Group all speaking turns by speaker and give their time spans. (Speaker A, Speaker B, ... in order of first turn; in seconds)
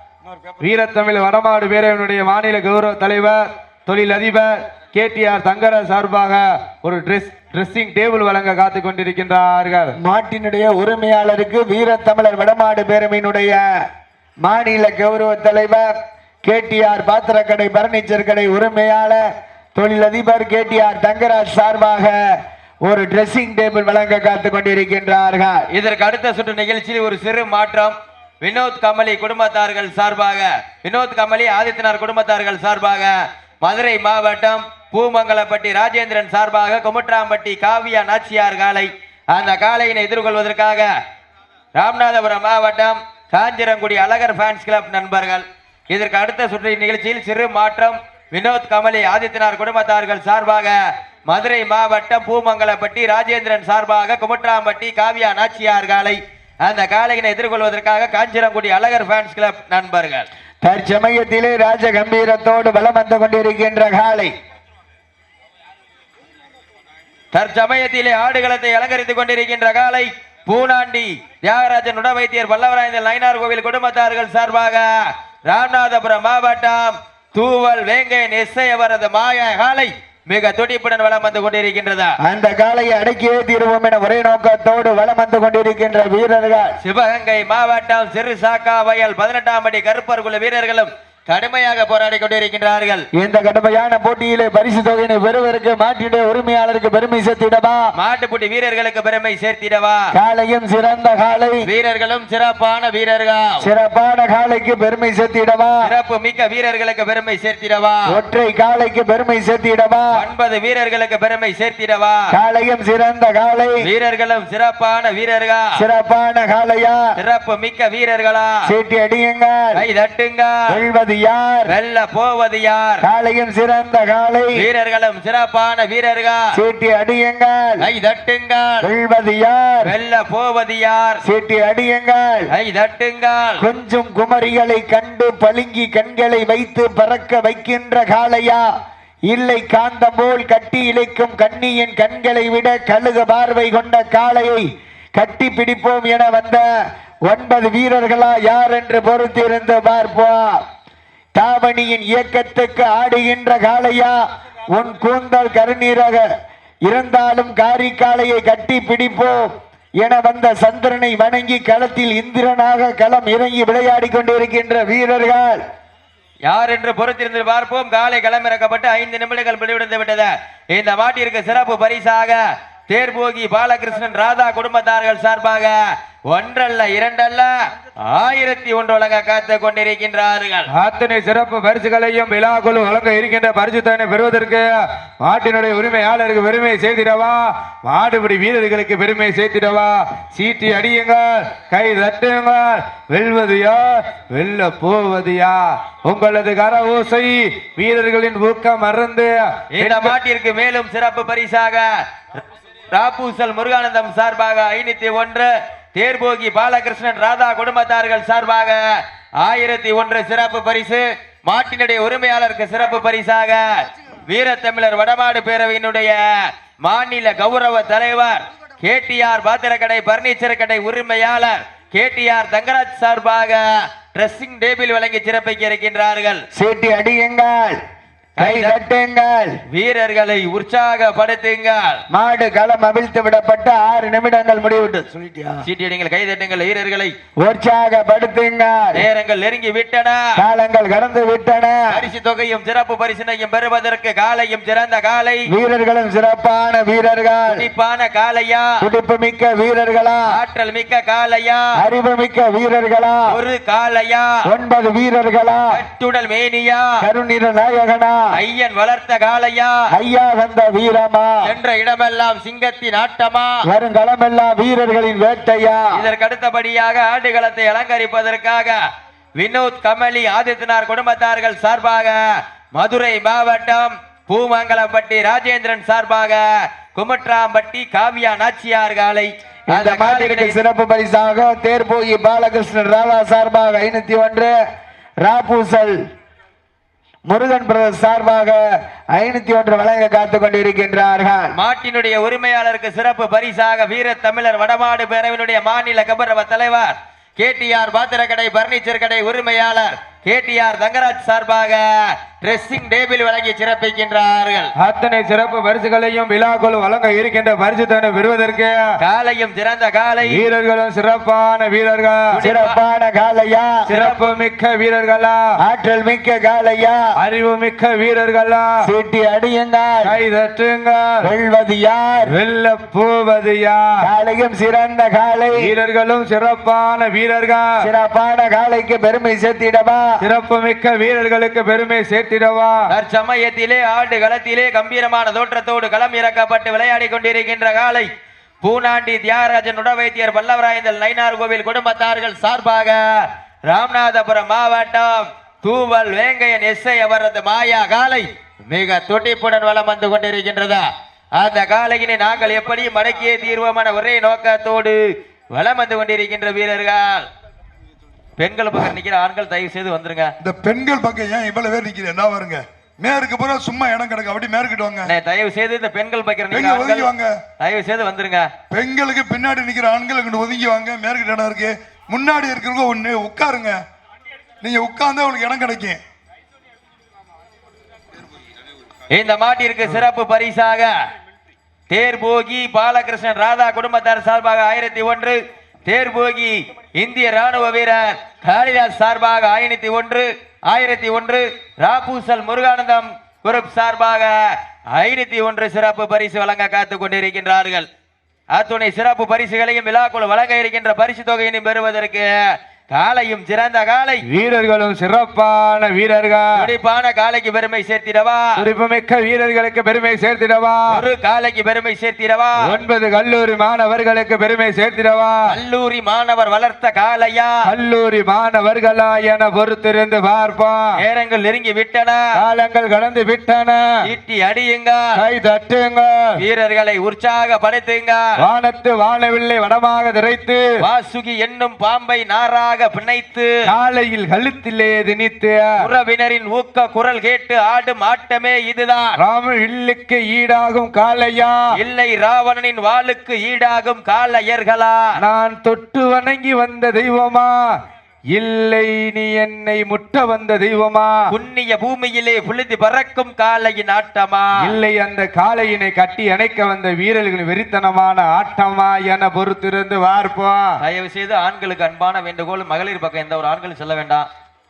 Speaker A: 0.6-10.0, 180.7-200.2, 304.8-308.9, 310.3-312.4, 313.9-315.5, 317.2-318.7, 320.1-321.2, 322.3-323.9, 325.6-327.7, 330.2-332.8, 404.3-406.6, 408.6-410.9, 412.6-415.5, 417.6-420.9, 422.4-423.9, 425.2-426.4, 428.4-430.6, 433.7-435.8, 439.2-441.6, 445.2-447.6, 448.3-451.2, 454.6-460.8
Speaker B: 10.0-13.6, 14.4-15.9, 16.4-19.2, 19.8-22.2, 22.9-25.7, 60.6-64.3, 82.2-86.8, 93.2-97.9, 100.1-101.7, 103.6-105.9, 108.1-110.1, 112.3-113.8, 115.8-117.0, 118.7-119.8, 120.7-121.7, 123.0-124.5, 126.5-127.8, 128.8-129.9, 131.2-132.4, 133.6-138.7, 139.3-146.6, 147.3-150.6, 151.4-154.2, 154.7-156.3, 156.9-165.6, 226.5-227.8, 228.4-229.6, 232.1-235.6, 237.4-239.0, 240.4-241.8, 245.5-247.6, 248.8-250.3, 251.8-253.2, 254.5-255.7, 257.0-258.2, 259.9-261.4, 263.7-265.9, 279.7-284.5, 285.2-286.0, 287.3-288.6, 289.1-291.5, 312.4-313.8, 315.6-317.0, 318.8-320.1, 321.2-322.3, 324.0-325.7, 327.8-330.1
Speaker C: 25.7-40.9, 41.8-50.8, 51.3-60.3, 67.3-74.9, 75.5-82.1, 86.8-93.0, 98.0-100.0, 101.6-103.6, 105.8-108.0, 110.2-112.2, 113.8-115.7, 117.2-118.5, 119.8-120.6, 121.7-123.0, 124.6-126.4, 127.8-128.8, 129.8-131.2, 132.5-133.6, 166.5-175.8, 176.3-177.5, 178.0-180.7, 199.8-201.9, 202.9-208.8, 209.4-216.2, 216.8-226.4, 228.4-228.8, 229.7-232.0, 235.6-237.1, 238.9-240.2, 241.9-245.5, 247.5-248.8, 250.3-251.7, 253.3-254.3, 255.7-256.9, 258.4-259.8, 261.4-263.5, 265.9-268.8, 269.4-272.2, 272.8-280.6, 291.5-304.7, 309.0-310.4, 312.3-312.8, 313.9-314.3, 332.9-338.1, 338.6-343.0, 343.7-350.8, 351.4-355.0, 355.5-357.3, 358.4-360.3, 365.0-368.5, 379.1-380.9, 381.9-394.4, 394.9-397.9, 398.5-402.3, 402.9-404.2, 406.6-408.5, 410.9-412.6, 415.5-417.6, 421.0-422.2, 424.0-425.2, 426.4-428.3, 430.8-433.5, 435.8-439.2, 441.8-445.1, 451.3-454.7, 460.8-464.3
Speaker D: 360.4-365.1, 366.5-367.4, 368.7-373.8, 374.6-376.0